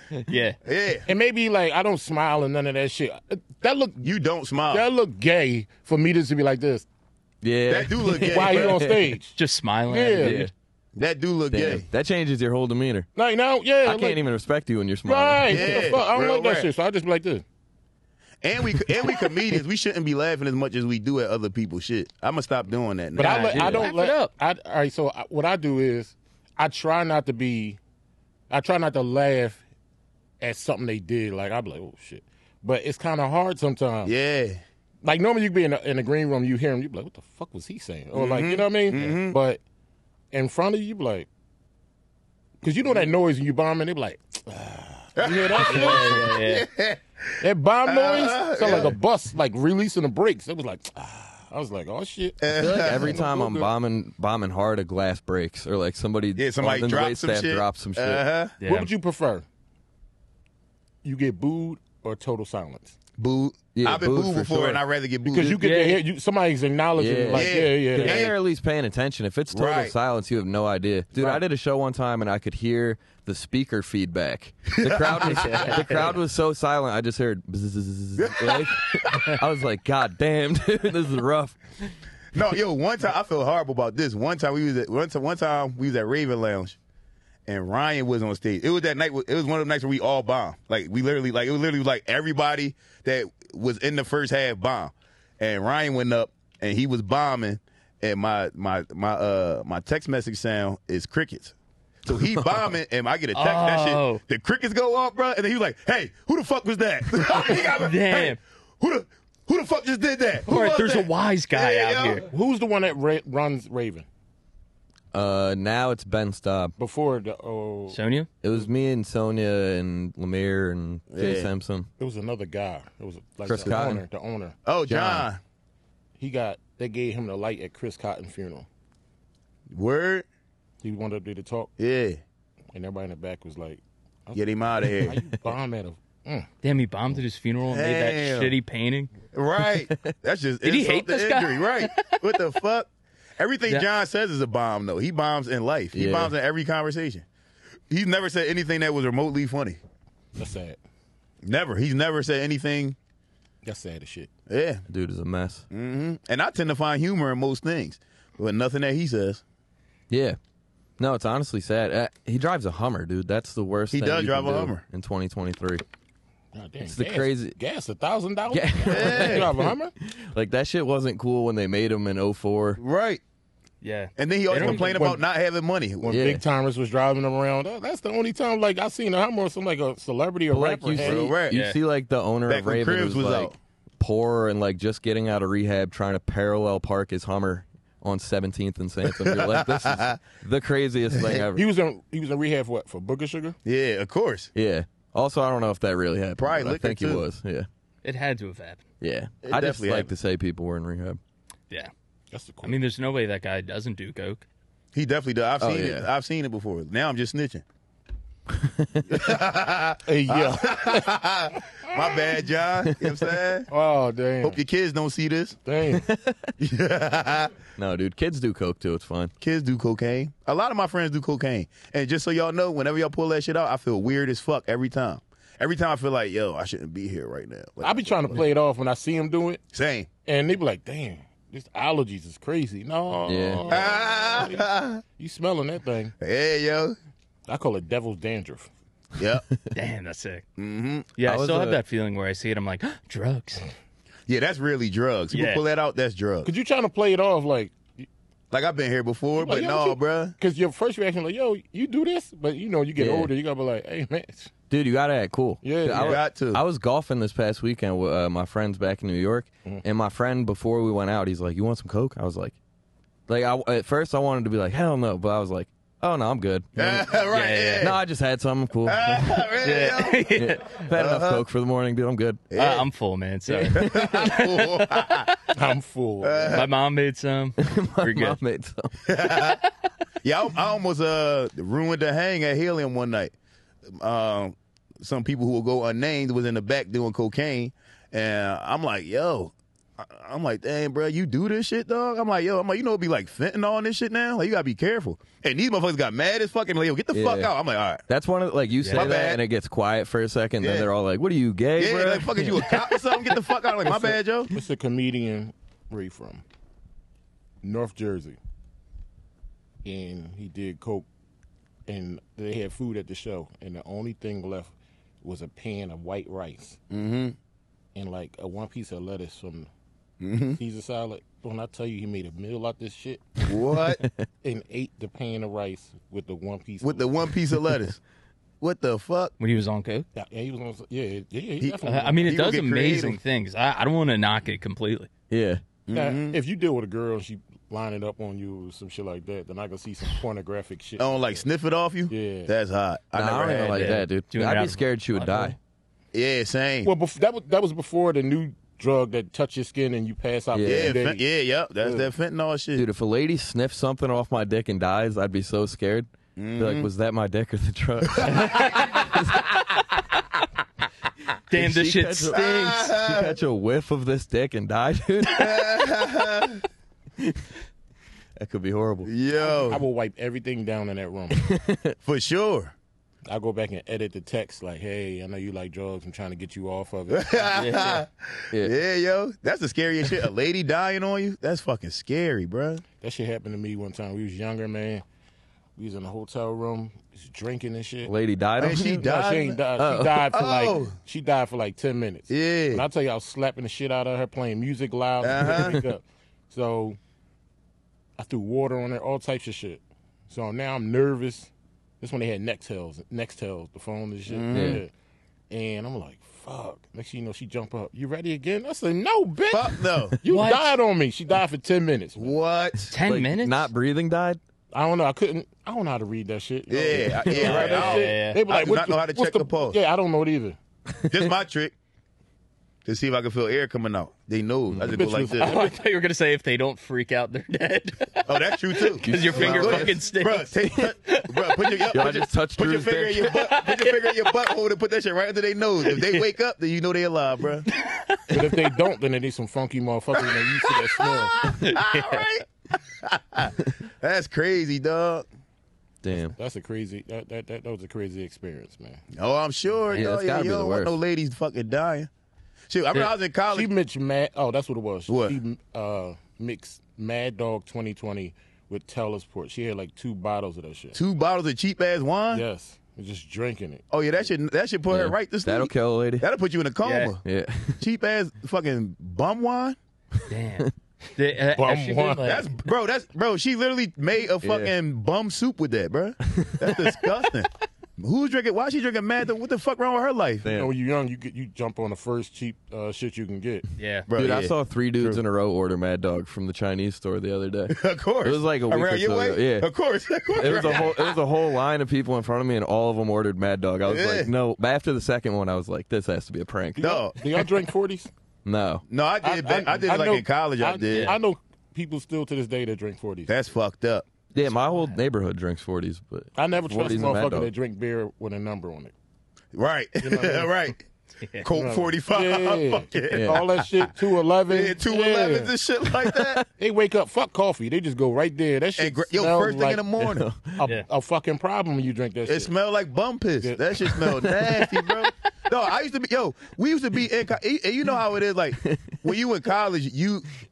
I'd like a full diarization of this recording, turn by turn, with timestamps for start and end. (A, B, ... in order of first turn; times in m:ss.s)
0:00.3-0:00.6 A
0:00.6-0:01.0 B
0:01.0-0:04.0 C
0:04.0-0:04.8 B
0:04.7-0:06.8 C
0:07.4-0:09.1 D
0:07.7-0:08.8 B
0:08.3-0:09.4 C
0:09.4-0:10.4 A
0:09.9-0:10.5 C
0:10.2-0:10.5 D
0:11.0-0:11.8 B
0:11.5-0:13.1 D
0:13.2-0:14.2 C
0:13.8-0:15.9 D
0:15.0-0:17.4 C
0:15.5-0:16.7 B
0:18.4-0:23.9 B
0:23.2-0:27.8 C
0:23.2-0:24.3 A
0:28.5-0:29.6 C
0:30.4-0:34.1 C
0:34.0-0:34.6 B
0:35.0-0:39.6 C
0:38.1-0:39.4 B
0:40.3-0:41.3 C
0:42.6-0:46.3 C
0:45.2-0:49.0 B
0:45.6-0:46.6 A
0:47.4-0:53.7 C
0:52.4-0:53.2 B
0:52.5-0:58.3 D
0:56.4-0:58.5 B
0:58.6-0:58.9 A
0:58.6-0:59.4 C
1:01.0-1:03.0 C
1:03.2-1:05.6 B
1:03.7-1:04.8 D
1:05.2-1:08.3 C
1:05.5-1:06.0 A
1:07.0-1:21.6 D
1:07.3-1:08.3 B
1:09.5-1:09.9 B
1:11.2-1:11.4 C
1:14.8-1:16.0 B
1:15.2-1:16.1 A
1:18.2-1:19.3 B
1:22.3-1:26.8 B
1:27.5-1:41.5 B
1:42.0-1:52.2 B
1:42.1-1:42.5 D
1:43.3-1:44.2 A
1:47.4-1:48.4 A
1:50.4-1:52.2 A
1:52.3-1:54.0 C
1:55.1-1:56.7 D
1:56.8-1:58.0 C
1:57.9-1:58.3 A
1:58.4-2:01.9 D
2:01.1-2:01.5 B
2:02.0-2:04.6 C
2:03.4-2:04.0 D
2:04.6-2:05.4 B
2:04.9-2:05.3 D
2:06.2-2:08.7 C
2:09.7-2:10.2 B
2:10.8-2:11.7 C
2:11.8-2:12.2 B
2:12.7-2:16.5 C
2:14.3-2:15.2 B
2:16.6-2:19.1 A
2:17.7-2:18.5 B
2:19.3-2:27.2 B
2:19.8-2:20.1 D
2:20.6-2:22.2 A
2:25.9-2:26.3 D
2:27.9-2:29.8 B
2:30.4-2:30.8 C
2:31.4-2:33.0 B
2:33.6-2:34.3 C
2:34.5-2:34.8 B
2:34.9-2:35.6 D
2:35.7-2:39.4 B
2:40.1-2:40.4 D
2:41.0-2:45.8 D
2:43.9-2:44.8 B
2:46.5-2:49.9 C
2:46.8-2:47.5 D
2:48.5-2:52.8 D
2:48.9-2:49.5 B
2:52.8-2:53.2 B
2:53.8-2:55.1 A
2:54.2-2:56.2 B
2:54.5-2:55.2 C
2:56.0-3:01.3 C
2:56.1-2:56.4 D
3:00.5-3:11.6 D
3:01.0-3:01.6 B
3:01.5-3:01.8 A
3:02.5-3:03.5 B
3:09.0-3:10.2 B
3:11.2-3:11.4 B
3:11.5-3:13.6 C
3:13.6-3:14.5 B
3:14.5-3:17.7 D
3:16.4-3:17.2 B
3:18.0-3:18.8 A
3:19.0-3:21.2 D
3:19.4-3:20.1 B
3:22.3-3:22.8 C
3:22.6-3:24.4 A
3:24.9-3:27.6 B
3:25.6-3:26.1 D
3:28.5-3:29.1 D
3:29.1-3:33.7 B
3:30.0-3:31.2 C
3:33.7-3:34.6 C
3:34.4-3:35.6 B
3:35.6-3:36.0 C
3:35.9-3:36.5 D
3:36.6-3:37.5 B
3:37.8-3:39.3 D
3:39.4-3:48.4 B
3:47.8-3:49.6 C
3:49.7-3:50.1 B
3:50.2-3:56.1 C
3:53.3-3:53.7 D
3:53.7-3:55.0 B
3:56.2-3:57.0 B
3:57.5-3:58.7 C
3:59.2-3:59.4 B
3:59.7-4:00.4 A
4:00.6-4:01.1 B
4:01.2-4:03.7 A
4:01.2-4:01.8 D
4:04.3-4:06.5 B
4:05.3-4:05.6 A
4:06.4-4:08.1 C
4:08.5-4:10.3 B
4:09.4-4:14.5 C
4:13.0-4:13.3 D
4:14.7-4:22.5 D
4:15.6-4:16.2 C
4:15.9-4:16.6 B
4:23.3-4:26.8 D
4:26.8-4:28.0 B
4:26.8-4:27.9 A
4:27.8-4:29.4 D
4:28.8-4:30.3 B
4:29.6-4:30.8 A
4:30.3-4:32.5 D
4:30.9-4:31.4 B
4:32.5-4:32.9 B
4:32.6-4:35.3 A
4:33.5-4:34.4 D
4:33.7-4:35.4 B
4:35.5-4:36.6 C
4:36.2-4:36.7 B
4:36.5-4:38.4 A
4:37.6-4:38.9 D
4:39.0-4:39.6 B
4:39.2-4:39.7 A
4:40.2-4:43.3 B
4:43.9-4:58.0 B
4:57.1-4:57.5 D
4:58.1-5:02.6 D
4:58.8-4:59.1 A
4:58.9-4:59.4 B
5:00.6-5:00.9 B
5:01.8-5:04.5 B
5:02.5-5:03.3 A
5:03.9-5:06.4 C
5:07.6-5:08.4 C
5:09.8-5:11.1 C
5:11.9-5:16.8 C
5:16.9-5:17.4 B
5:17.9-5:19.7 C
5:20.2-5:20.6 B
5:20.5-5:23.2 C
5:23.4-5:24.0 B
5:24.0-5:24.2 D
5:24.4-5:27.3 C
5:26.8-5:28.0 B
5:28.6-5:29.3 B
5:29.4-5:30.1 A
5:30.1-5:32.4 C
5:31.6-5:33.2 B
5:31.8-5:35.1 A
5:35.3-5:35.6 D
5:35.9-5:36.4 B
5:35.9-5:41.4 C
5:41.0-5:44.0 B
5:42.1-5:42.5 C
5:43.1-5:45.6 D
5:43.7-5:45.6 A
5:46.1-5:46.9 B
5:46.8-5:51.2 C
5:50.5-5:51.0 D
5:50.6-5:52.8 B
5:51.8-5:52.1 C
5:52.7-5:59.6 D
5:56.4-5:56.9 B
5:58.2-5:58.8 B
5:58.2-5:59.1 A
6:01.5-6:02.5 A
6:01.5-6:06.0 D
6:02.3-6:03.4 B
6:05.3-6:06.6 B
6:08.4-6:09.1 D
6:09.0-6:09.8 B
6:09.5-6:11.4 C
6:11.3-6:12.0 D
6:12.0-6:12.7 B
6:13.3-6:17.8 C
6:17.1-6:22.8 B
6:17.5-6:18.0 A
6:23.0-6:25.0 C
6:25.8-6:28.1 C
6:28.0-6:29.1 D
6:28.6-6:29.6 B
6:29.0-6:37.0 C
6:29.8-6:30.3 D
6:30.3-6:30.9 B
6:32.3-6:32.8 B
6:35.2-6:35.8 B
6:38.2-6:41.5 C
6:42.0-6:44.9 C
6:44.3-6:44.8 B
6:44.5-6:44.8 D
6:45.5-6:52.3 C
6:49.5-6:50.2 B
6:50.3-6:50.7 A
6:52.2-6:52.9 B
6:52.9-6:53.7 A
6:53.0-6:54.4 D
6:54.7-7:00.6 C
6:56.7-6:59.8 B
6:57.1-6:57.7 D
6:57.3-6:58.4 A
7:01.0-7:01.7 B
7:02.8-7:05.6 B
7:04.7-7:05.0 D
7:04.8-7:05.7 C
7:05.4-7:11.9 A
7:08.2-7:17.7 B
7:09.0-7:10.0 D
7:11.9-7:13.4 D
7:13.3-7:14.4 A
7:15.9-7:16.2 A
7:17.8-7:18.6 A
7:18.3-7:21.3 C
7:20.2-7:25.2 B
7:21.4-7:22.3 A
7:26.0-7:26.3 D
7:26.2-7:29.0 C
7:29.1-7:32.1 B
7:29.9-7:30.9 D
7:32.7-7:33.7 B
7:33.5-7:41.0 C
7:35.1-7:35.4 B
7:40.9-7:42.4 B
7:42.3-7:43.8 C
7:43.9-7:47.2 B
7:44.9-7:46.2 D
7:46.8-7:47.1 A
7:47.2-7:47.8 D
7:47.8-7:49.8 B
7:50.3-7:52.5 A
7:51.5-7:52.4 C
7:52.2-8:00.4 B
7:54.4-7:54.7 D
7:56.3-7:57.1 D
8:00.4-8:00.7 D
8:00.5-8:03.6 C
8:03.8-8:04.1 A
8:04.1-8:05.2 B
8:04.2-8:09.7 D
8:07.7-8:11.2 B
8:10.3-8:17.0 D
8:10.5-8:10.8 A
8:13.8-8:14.3 B
8:16.8-8:18.1 C
8:16.8-8:17.2 B
8:18.4-8:18.8 D
8:18.9-8:21.2 B
8:19.2-8:23.3 C
8:20.9-8:21.2 A
8:23.3-8:24.1 B
8:24.3-8:27.5 D
8:26.4-8:28.9 C
8:29.5-8:30.8 B
8:30.0-8:30.5 C
8:31.2-8:31.5 A
8:31.4-8:33.7 B
8:31.5-8:35.5 C
8:33.1-8:33.4 D
8:34.5-8:36.4 B
8:36.0-8:36.4 D
8:36.6-8:39.8 C
8:38.8-8:40.2 B
8:40.0-8:40.6 D
8:40.6-8:42.5 C
8:42.3-8:50.3 B
8:43.8-8:45.1 D